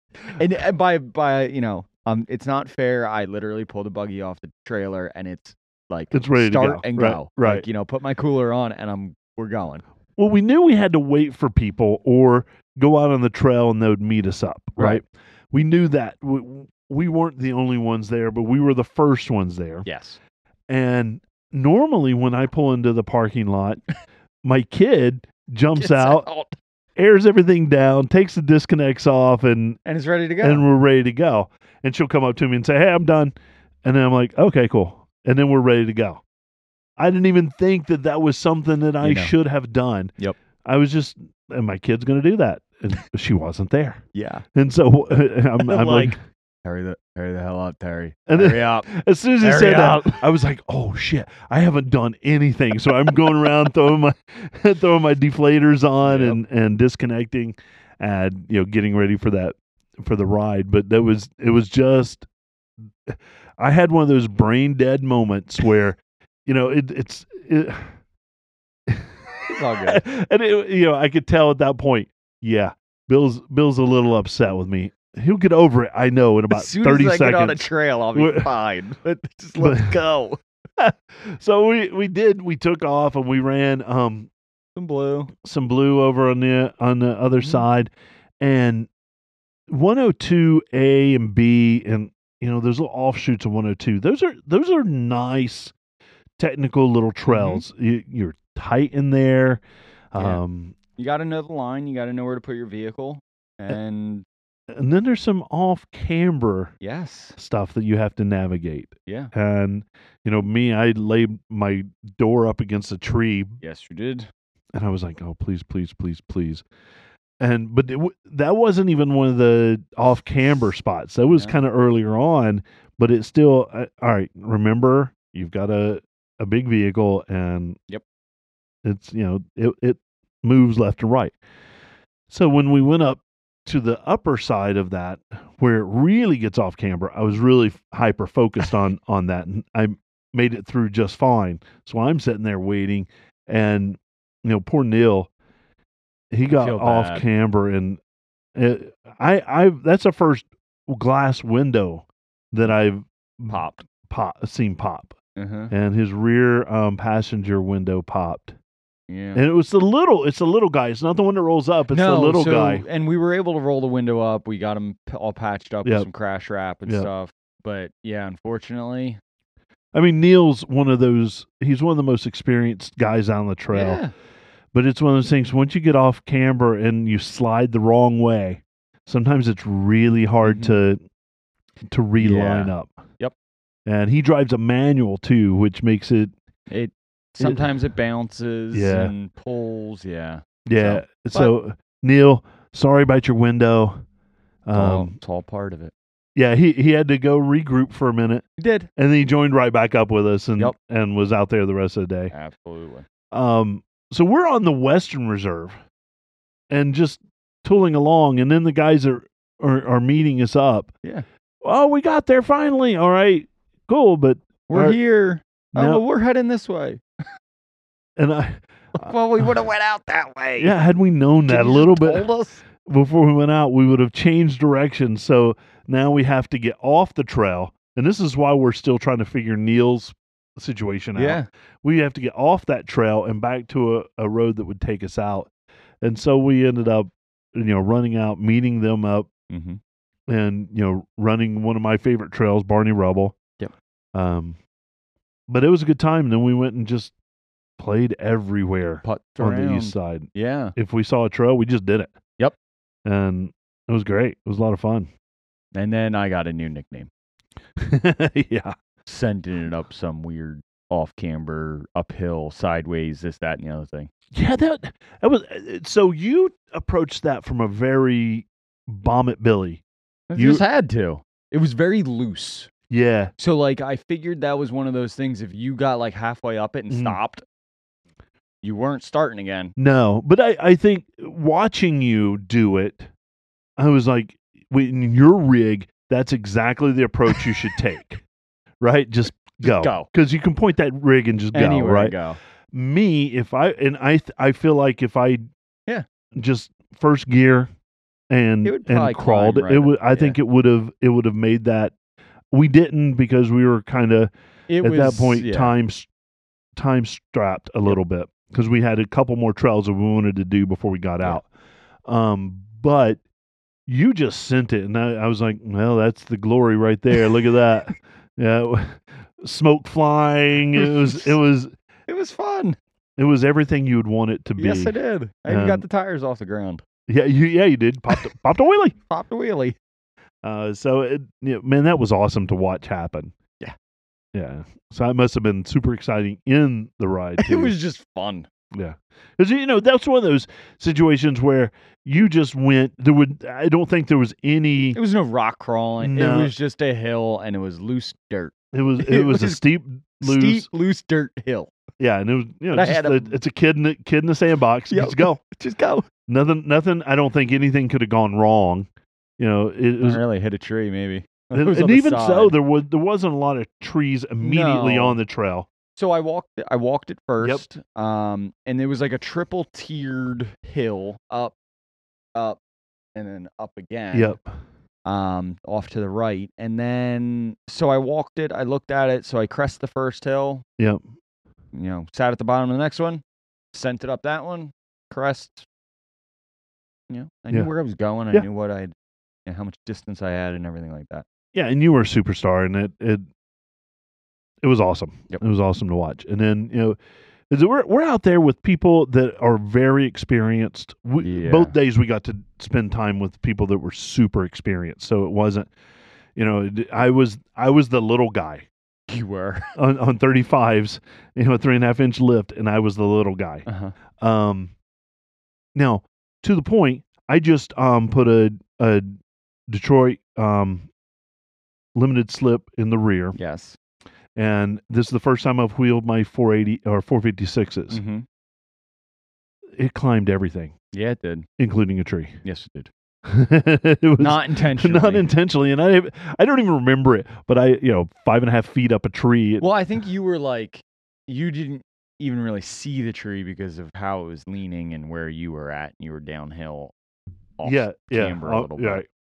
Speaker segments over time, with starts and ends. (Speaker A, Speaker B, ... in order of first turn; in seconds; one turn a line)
Speaker A: 0.3-9.8
Speaker B: 6.1-7.6
Speaker B: 10.2-19.9
Speaker A: 19.8-20.2
Speaker B: 20.7-23.8
Speaker B: 24.4-26.2
Speaker A: 25.8-26.6
Speaker B: 26.9-29.8
Speaker A: 29.8-30.6
Speaker B: 30.4-36.2
Speaker B: 37.0-40.1
Speaker A: 39.0-39.3
Speaker B: 40.6-44.0
Speaker A: 44.1-44.4
Speaker B: 44.5-46.2
Speaker A: 45.6-48.9
Speaker B: 48.3-62.2
Speaker A: 49.4-50.2
Speaker A: 56.0-56.4
Speaker B: 63.0-67.9
Speaker B: 68.9-78.5
Speaker A: 69.5-70.0
Speaker A: 76.5-80.4
Speaker B: 79.6-80.0
Speaker B: 80.8-84.3
Speaker A: 84.8-85.3
Speaker B: 85.4-88.9
Speaker B: 89.7-95.7
Speaker B: 96.4-100.8
Speaker A: 97.3-97.6
Speaker A: 101.0-104.2
Speaker B: 104.7-106.7
Speaker A: 106.8-107.4
Speaker B: 107.3-113.6
Speaker A: 109.0-109.3
Speaker A: 113.6-114.3
Speaker B: 114.7-116.6
Speaker B: 117.4-127.8
Speaker A: 121.3-121.6
Speaker B: 128.8-131.3
Speaker B: 132.3-145.3
Speaker B: 146.3-148.0
Speaker A: 146.5-147.2
Speaker B: 148.5-155.1
Speaker A: 153.5-153.8
Speaker A: 155.3-155.7
Speaker B: 155.7-158.6
Speaker A: 159.1-159.4
Speaker B: 159.3-162.8
Speaker A: 161.9-169.2
Speaker B: 169.9-174.0
Speaker A: 173.7-174.1
Speaker B: 174.7-181.0
Speaker A: 180.4-180.8
Speaker B: 181.9-182.9
Speaker A: 182.2-183.3
Speaker B: 183.8-186.3
Speaker A: 186.7-191.5
Speaker B: 187.4-187.7
Speaker B: 188.7-189.1
Speaker B: 190.7-194.0
Speaker B: 194.7-195.1
Speaker A: 194.7-195.9
Speaker B: 196.3-198.4
Speaker A: 198.6-198.9
Speaker B: 198.9-202.3
Speaker A: 202.3-203.1
Speaker B: 203.3-205.8
Speaker B: 206.7-210.9
Speaker B: 211.6-215.0
Speaker A: 214.7-217.0
Speaker B: 215.7-216.0
Speaker B: 218.2-219.1
Speaker A: 218.9-220.8
Speaker B: 220.6-222.3
Speaker A: 221.5-222.6
Speaker B: 222.8-235.5
Speaker A: 231.1-231.5
Speaker B: 236.0-239.3
Speaker A: 239.5-239.8
Speaker B: 240.3-243.3
Speaker B: 244.1-244.6
Speaker B: 245.5-247.1
Speaker B: 247.8-252.1
Speaker A: 249.0-250.8
Speaker B: 253.0-255.1
Speaker A: 255.7-257.1
Speaker B: 257.8-258.7
Speaker A: 259.1-264.1
Speaker B: 264.3-269.8
Speaker A: 270.3-272.7
Speaker B: 270.3-270.6
Speaker B: 272.9-273.3
Speaker A: 273.4-277.4
Speaker B: 276.9-277.2
Speaker A: 278.6-279.7
Speaker B: 279.8-283.1
Speaker B: 283.8-288.2
Speaker B: 288.8-292.1
Speaker A: 289.6-290.1
Speaker A: 291.5-292.4
Speaker B: 292.7-295.4
Speaker B: 296.3-297.7
Speaker B: 298.3-301.9
Speaker A: 298.6-300.4
Speaker B: 302.5-306.1
Speaker A: 304.7-305.7
Speaker B: 306.8-311.5
Speaker B: 312.1-313.2
Speaker B: 313.9-321.7
Speaker A: 320.7-321.3
Speaker A: 322.1-322.8
Speaker B: 323.2-324.9
Speaker A: 324.6-326.8
Speaker B: 325.5-325.8
Speaker B: 327.1-328.9
Speaker A: 329.1-329.8
Speaker B: 330.4-333.3
Speaker B: 334.3-337.7
Speaker A: 337.4-338.5
Speaker B: 338.7-345.0
Speaker A: 344.9-349.6
Speaker B: 346.0-346.5
Speaker B: 348.7-350.7
Speaker A: 350.2-351.7
Speaker B: 352.0-355.4
Speaker A: 352.7-353.3
Speaker A: 354.9-356.1
Speaker B: 356.3-358.9
Speaker B: 359.4-360.2
Speaker A: 360.0-362.5
Speaker B: 361.5-365.7
Speaker A: 364.4-365.2
Speaker A: 365.9-371.5
Speaker A: 373.1-374.4
Speaker B: 374.1-374.5
Speaker A: 375.0-380.6
Speaker A: 381.7-385.7
Speaker A: 387.1-388.9
Speaker A: 389.4-391.2
Speaker B: 391.5-393.2
Speaker B: 394.6-397.0
Speaker B: 397.5-405.7
Speaker A: 401.2-401.7
Speaker B: 406.4-408.7
Speaker A: 409.1-409.7
Speaker B: 409.7-413.6
Speaker A: 413.6-413.9
Speaker B: 414.2-414.7
Speaker B: 415.7-419.1
Speaker B: 419.7-420.9
Speaker B: 421.9-423.4
Speaker A: 423.3-423.8
Speaker B: 424.4-428.0
Speaker A: 427.9-428.2
Speaker B: 429.8-430.7
Speaker A: 430.9-431.5
Speaker B: 431.6-432.4
Speaker A: 432.4-432.9
Speaker B: 433.2-439.6
Speaker A: 434.2-435.3
Speaker A: 439.6-446.9
Speaker A: 447.6-449.0
Speaker B: 447.6-449.0